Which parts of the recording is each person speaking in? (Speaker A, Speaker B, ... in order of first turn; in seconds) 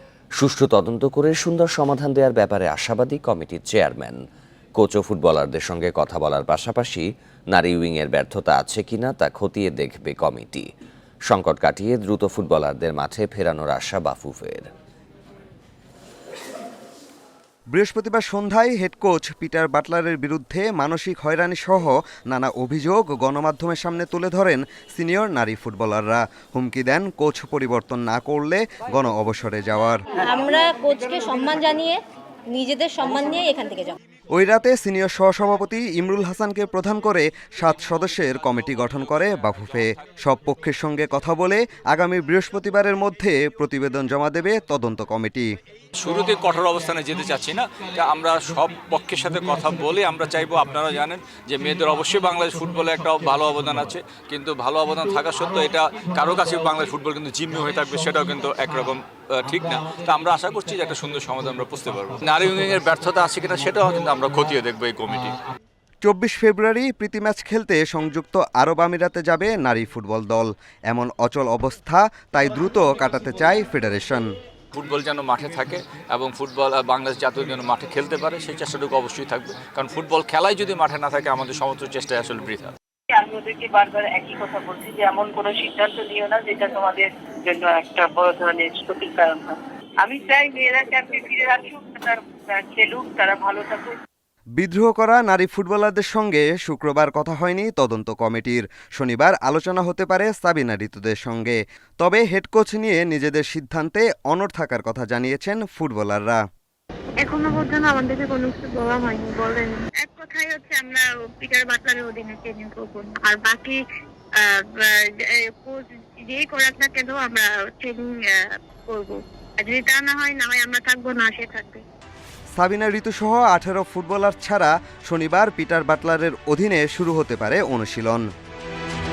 Speaker A: 0.4-4.2, 4.8-10.7, 11.3-14.7
Speaker B: 17.7-30.0, 34.3-45.5, 66.0-74.3, 94.6-106.4, 122.5-128.2
Speaker C: 30.1-34.0
Speaker D: 46.0-65.3, 74.7-82.7
Speaker E: 83.1-94.0
Speaker F: 107.2-113.8, 114.5-118.0, 118.9-121.8